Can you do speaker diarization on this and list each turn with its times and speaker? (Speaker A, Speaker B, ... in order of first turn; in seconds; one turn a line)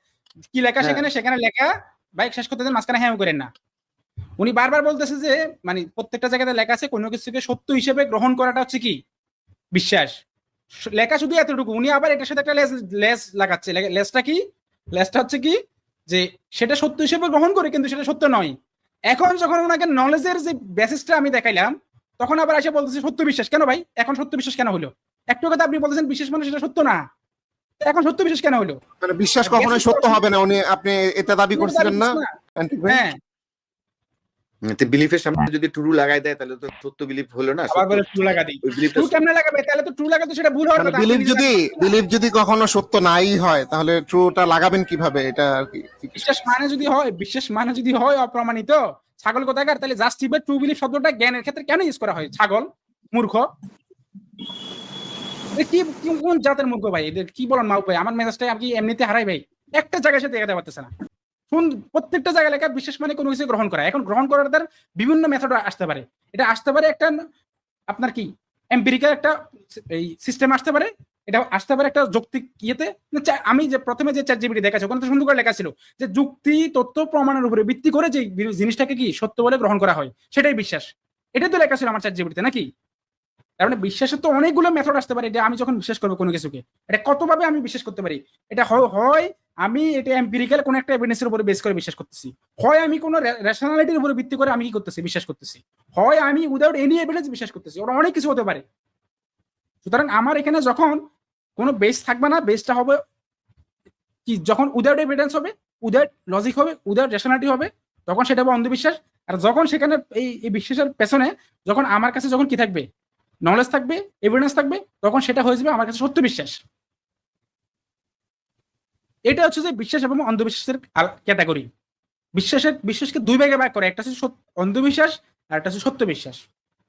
Speaker A: 0.5-3.5
Speaker A: 4.4-9.0
Speaker A: 9.7-10.2
Speaker A: 10.9-14.4
Speaker A: 14.9-15.5
Speaker A: 16.1-18.5
Speaker A: 19.1-27.0
Speaker A: 27.8-28.8
Speaker B: 29.0-33.1
Speaker A: 29.4-30.2
Speaker A: 31.5-32.3
Speaker A: 32.9-33.1
Speaker C: 34.6-38.1
Speaker A: 37.7-41.9
Speaker C: 38.6-39.2
Speaker B: 40.8-46.3
Speaker A: 46.1-53.5
Speaker A: 55.6-60.9
Speaker A: 61.5-67.1
Speaker A: 67.9-82.7
Speaker A: 83.6-98.6
Speaker A: 99.8-101.0
Speaker A: 101.6-103.0
Speaker A: 104.2-112.8
Speaker A: 113.5-116.6
Speaker A: 119.3-121.7
Speaker A: 122.3-126.4